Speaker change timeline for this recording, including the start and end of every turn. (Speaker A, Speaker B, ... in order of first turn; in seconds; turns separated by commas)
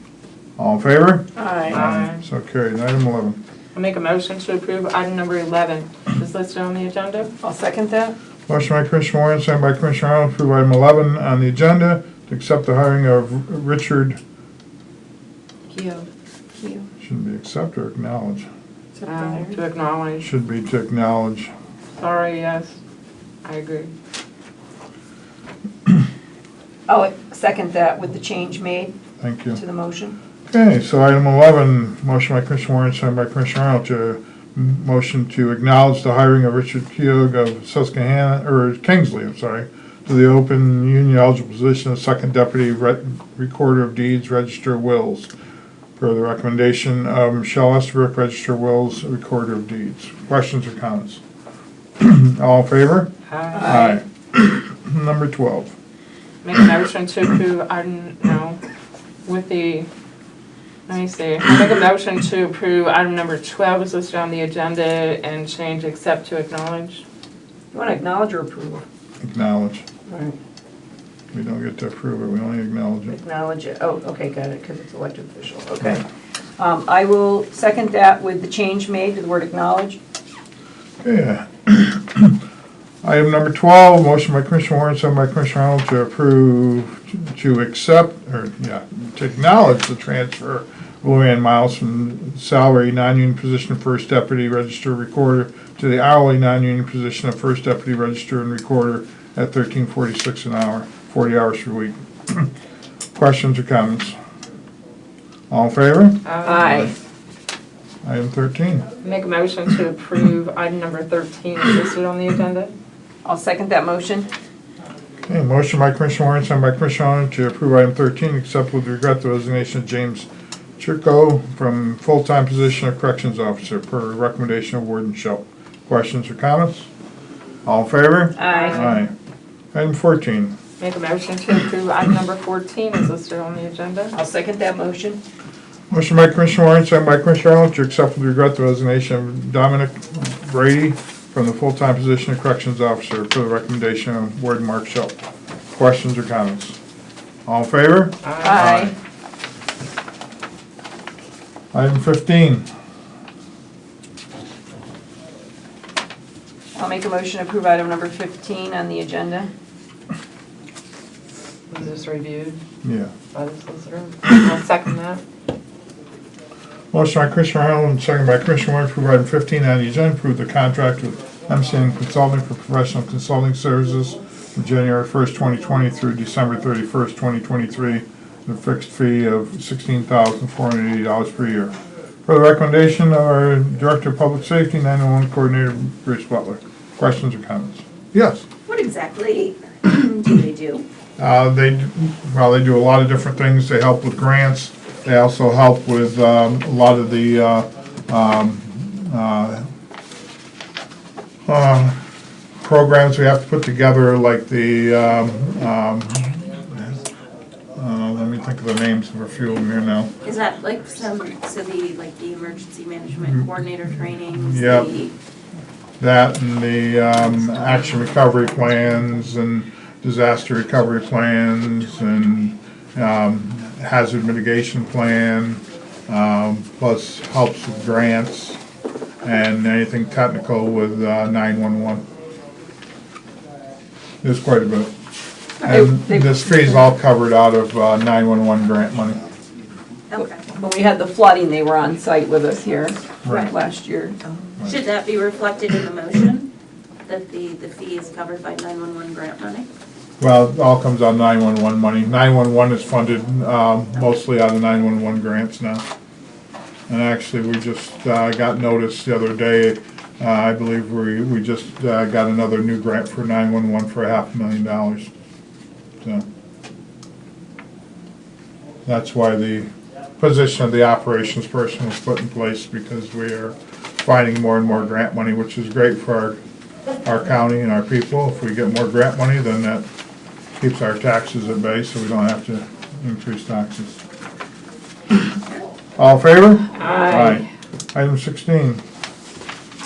Speaker A: 0.6-3.4, Speaker B: 1.4-1.8, Speaker C: 1.7-2.2, Speaker C: 3.7-7.3, Speaker B: 7.4-8.1, Speaker A: 8.5-14.2, Speaker C: 15.7-16.1, Speaker B: 16.6-16.9, Speaker A: 17.0-18.5, Speaker B: 18.9-19.6, Speaker C: 19.1-20.3, Speaker A: 20.2-21.5, Speaker C: 21.9-22.8, Speaker C: 23.4-23.9, Speaker B: 26.9-28.9, Speaker A: 29.2-29.6, Speaker B: 29.5-30.2, Speaker A: 30.5-45.3, Speaker A: 46.0-51.2, Speaker A: 52.0-53.1, Speaker C: 53.3-54.0, Speaker B: 53.5-54.0, Speaker A: 53.6-55.7, Speaker C: 56.4-58.6, Speaker C: 59.2-59.9, Speaker C: 60.9-67.0, Speaker B: 67.7-68.8, Speaker A: 69.2-69.8, Speaker B: 70.1-70.3, Speaker A: 71.3-73.2, Speaker B: 73.1-76.0, Speaker B: 76.6-80.0, Speaker A: 81.0-82.4, Speaker A: 83.0-102.5, Speaker A: 103.1-104.2, Speaker A: 105.5-106.2, Speaker C: 106.2-106.6, Speaker B: 106.4-106.9, Speaker A: 108.0-108.9, Speaker C: 109.0-112.7, Speaker B: 113.2-114.3, Speaker A: 115.2-126.9, Speaker A: 127.6-129.1, Speaker B: 128.3-129.0, Speaker C: 128.6-128.9, Speaker A: 129.7-130.5, Speaker C: 130.8-134.1, Speaker B: 134.1-135.2, Speaker A: 135.9-145.2, Speaker A: 145.7-146.8, Speaker A: 147.4-148.9, Speaker C: 148.2-148.7, Speaker B: 148.4-148.9, Speaker A: 151.7-152.7, Speaker B: 156.7-159.5, Speaker C: 161.7-162.6, Speaker A: 162.8-163.1, Speaker C: 163.3-165.2, Speaker A: 166.9-181.7, Speaker A: 182.2-188.4, Speaker D: 188.7-190.8, Speaker A: 191.2-199.7, Speaker A: 201.5-202.0, Speaker A: 202.6-207.0, Speaker A: 207.7-210.1, Speaker D: 210.2-215.1, Speaker A: 214.4-214.9, Speaker A: 216.0-228.6, Speaker A: 229.2-232.0, Speaker A: 234.2-234.9, Speaker B: 235.6-236.8, Speaker A: 235.6-239.3, Speaker D: 240.1-240.4, Speaker B: 240.4-244.2, Speaker A: 243.2-243.5, Speaker D: 244.3-246.5, Speaker D: 247.1-249.7, Speaker A: 250.2-255.8, Speaker A: 256.9-265.1, Speaker A: 268.9-276.4, Speaker A: 277.0-279.9, Speaker A: 280.6-284.0, Speaker A: 286.0-288.8, Speaker B: 286.8-287.4, Speaker C: 286.8-287.4